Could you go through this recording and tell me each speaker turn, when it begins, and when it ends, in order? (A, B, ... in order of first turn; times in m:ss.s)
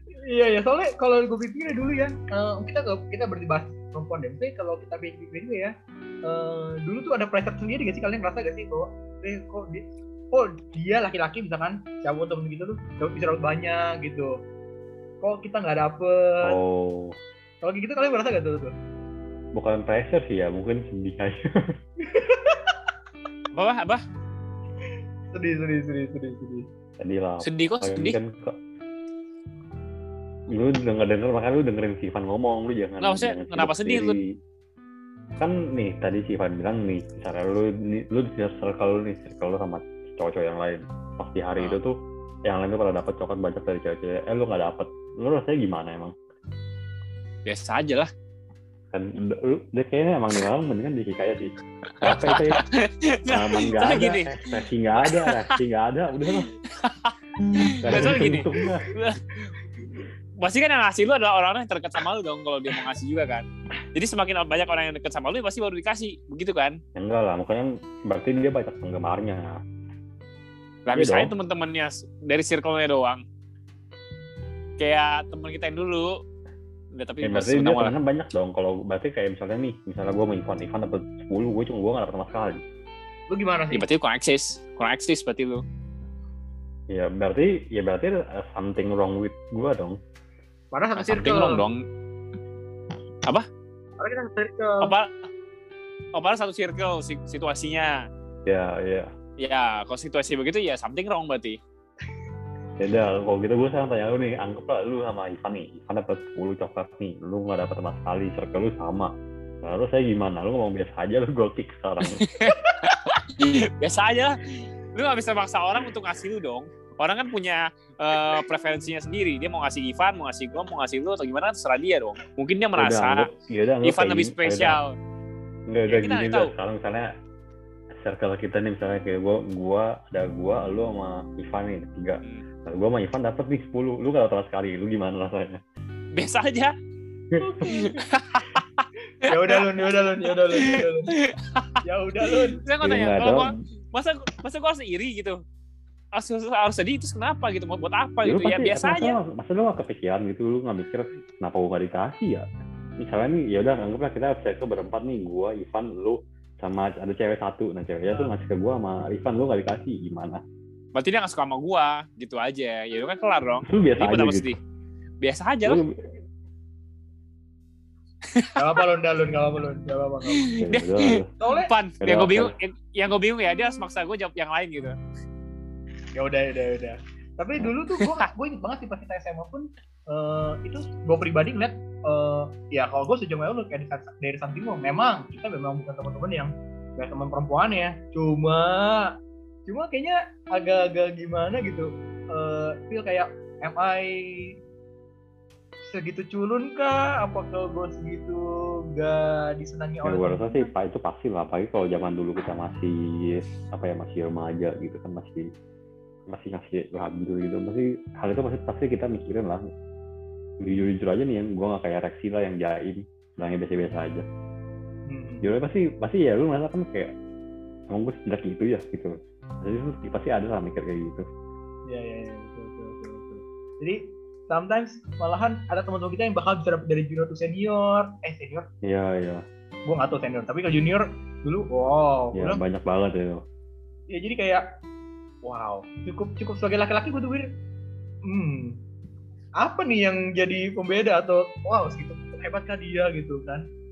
0:00.3-0:05.7 A
0:06.2-0:14.3 A
0:15.2-0:16.5 A
0:16.4-0:17.2 B
0:17.6-0:18.7 A
0:19.6-0:21.5 B
0:22.0-0:22.8 A
0:23.5-0:24.0 C
0:25.3-0:26.7 A
0:27.0-0:28.6 B
0:27.4-0:28.2 C
0:30.5-0:34.2 B
0:33.0-0:34.2 C
0:35.4-0:42.0 B
0:42.5-0:46.1 B
0:47.5-0:48.1 C
0:48.9-0:52.6 B
0:52.0-0:54.3 C
0:53.3-0:56.5 B
0:55.0-0:55.6 C
0:56.8-0:59.4 C
0:57.8-0:58.9 B
1:00.4-1:06.8 C
1:07.0-1:09.6 B
1:10.9-1:13.2 C
1:10.9-1:11.3 B
1:14.8-1:16.2 C
1:17.0-1:18.0 C
1:17.2-1:22.6 B
1:23.3-1:23.9 A
1:23.7-1:25.6 C
1:26.9-1:30.0 B
1:30.7-1:31.6 A
1:31.0-1:31.8 C
1:34.0-1:34.9 A
1:34.8-1:35.1 C
1:36.2-1:38.0 C
1:38.5-1:39.1 B
1:39.4-1:41.6 C
1:42.8-1:49.1 B
1:49.6-1:52.2 B
1:52.2-1:54.4 C
1:55.0-2:03.3 C
2:02.8-2:04.8 B
2:03.8-2:05.0 C
2:05.7-2:07.1 B
2:05.9-2:06.5 C
2:08.0-2:15.6 B
2:16.2-2:16.7 C
2:17.3-2:17.6 B
2:17.4-2:18.0 A
2:18.1-2:19.8 C
2:19.2-2:21.1 A
2:21.3-2:21.8 C
2:21.8-2:22.6 A
2:22.6-2:25.4 C
2:22.8-2:23.6 B
2:26.1-2:29.2 C
2:28.2-2:32.4 B
2:33.0-2:40.4 B
2:41.0-2:44.6 C
2:43.7-2:44.6 B
2:45.2-2:45.8 C
2:45.6-2:45.9 B
2:48.6-2:50.5 A
2:50.6-2:51.3 B
2:50.7-2:55.0 C
2:51.4-2:51.7 A
2:52.0-2:52.5 B
2:56.2-3:09.1 A
3:09.7-3:14.5 A
3:15.9-3:20.7 A
3:20.0-3:25.5 B
3:26.3-3:29.6 B
3:30.6-3:34.3 B
3:35.1-3:35.5 A
3:35.4-3:37.1 B
3:37.9-3:41.3 B
3:41.9-3:48.7 A
3:48.8-3:49.4 B
3:49.9-3:52.6 A
3:52.4-3:53.4 B
3:54.1-3:54.6 A
3:55.4-3:57.5 A
3:58.3-3:58.8 A
3:59.6-4:03.7 A